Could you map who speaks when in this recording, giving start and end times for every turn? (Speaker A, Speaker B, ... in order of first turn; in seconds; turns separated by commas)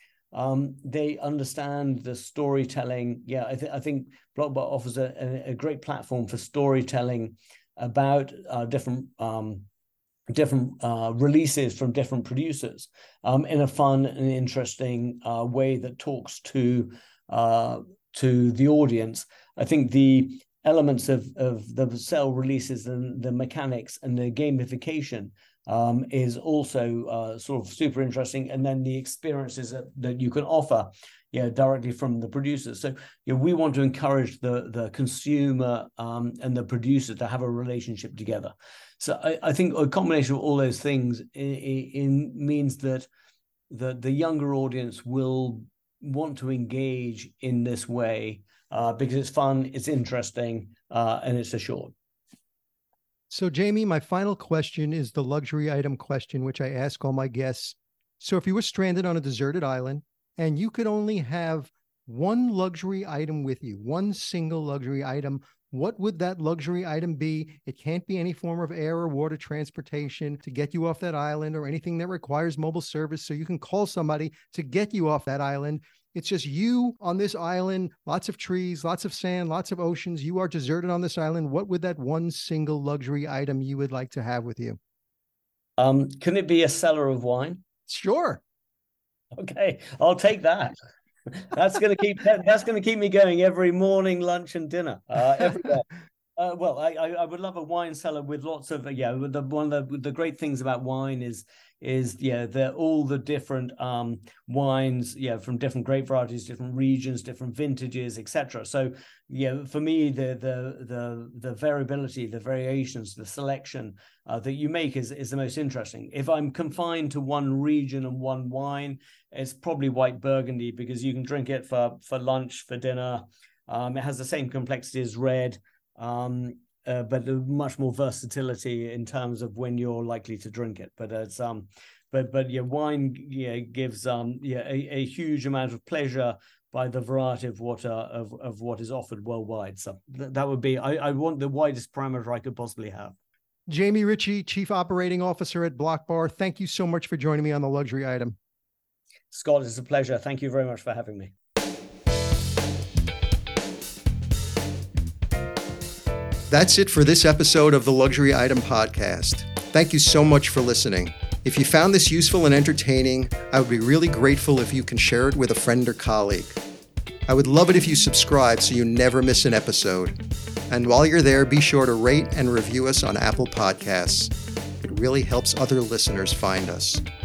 Speaker A: 0.3-9.7, Speaker A: 10.3-43.1, Speaker A: 43.7-51.9, Speaker B: 53.3-84.8, Speaker A: 85.8-87.6, Speaker B: 87.9-88.4, Speaker A: 89.3-90.8, Speaker A: 91.3-143.2, Speaker B: 143.7-148.4, Speaker A: 149.3-151.3, Speaker B: 156.5-166.6, Speaker B: 167.3-170.2, Speaker B: 170.7-177.0